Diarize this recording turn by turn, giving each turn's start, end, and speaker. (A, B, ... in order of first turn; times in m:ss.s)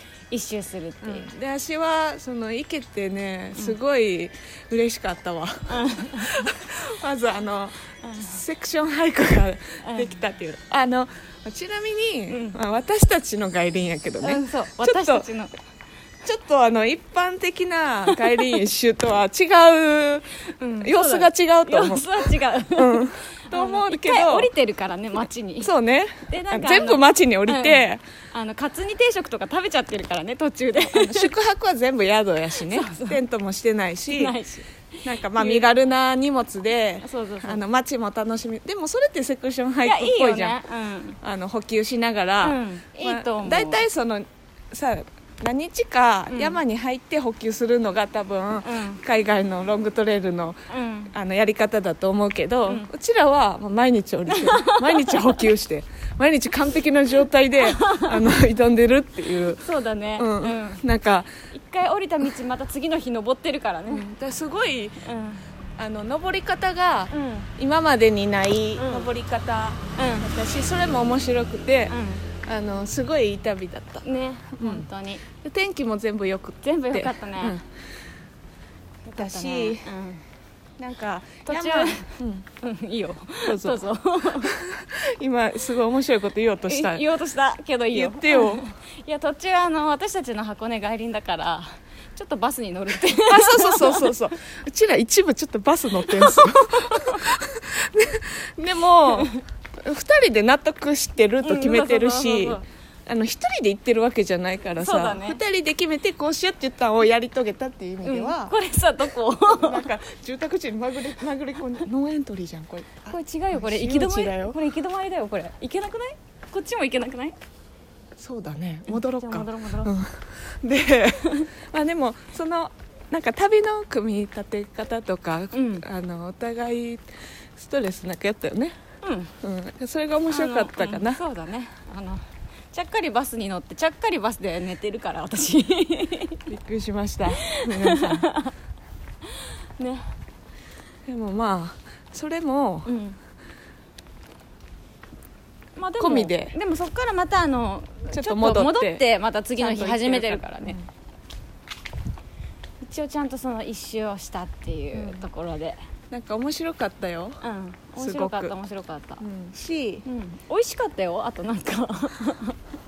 0:00.3-0:01.4 A
0:01.0-0:15.3 B
0:05.7-0:06.5 A
0:08.0-0:08.4 A
0:09.8-0:10.2 A
0:12.3-0:12.6 A
0:14.2-0:15.5 A
0:16.2-0:24.5 B
0:18.1-0:18.4 A
0:20.6-0:25.7 A
0:25.6-0:28.0 B
0:26.3-0:31.3 A
0:30.9-0:34.4 B
0:32.6-0:33.2 A
0:34.1-0:35.7 A
0:35.0-0:40.6 B
0:37.0-0:37.6 A
0:39.8-0:41.2 A
0:41.2-1:01.3 B
0:42.4-0:43.8 A
0:46.3-0:46.6 A
0:48.6-0:49.0 A
0:50.7-0:51.1 A
0:54.3-0:55.4 A
0:57.6-0:58.2 A
0:59.6-1:00.8 A
1:01.5-1:04.1 A
1:03.9-1:05.0 B
1:05.0-1:05.4 A
1:05.8-1:14.0 B
1:07.1-1:07.5 A
1:08.8-1:09.1 A
1:10.0-1:10.3 A
1:11.9-1:12.3 A
1:14.0-1:15.2 A
1:14.6-1:14.9 B
1:15.4-1:17.6 B
1:16.6-1:17.6 A
1:19.1-1:20.2 A
1:19.2-1:19.9 B
1:20.8-1:22.5 B
1:21.5-1:24.6 A
1:23.4-1:23.8 B
1:24.4-1:27.0 B
1:26.7-1:34.1 A
1:27.9-1:28.7 B
1:33.2-1:48.6 B
1:36.0-1:37.2 A
1:39.1-1:39.4 A
1:41.4-1:42.6 A
1:44.8-1:45.4 A
1:48.0-1:49.9 A
1:49.5-1:54.6 B
1:53.1-1:57.4 A
1:58.2-2:08.8 B
1:58.9-1:59.9 A
2:05.5-2:05.8 A
2:09.0-2:09.3 A
2:09.4-2:11.2 B
2:10.3-2:16.5 A
2:16.5-2:18.3 B
2:17.4-2:18.5 A
2:19.4-2:20.1 A
2:21.1-2:22.9 B
2:22.9-2:23.2 A
2:25.8-2:30.8 A
2:26.0-2:26.6 B
2:28.1-2:30.9 B
2:32.8-2:35.8 A
2:35.0-2:35.3 B
2:36.1-2:37.4 B
2:37.4-2:39.2 A
2:38.0-2:38.5 B
2:39.2-2:40.0 B
2:40.0-2:42.6 A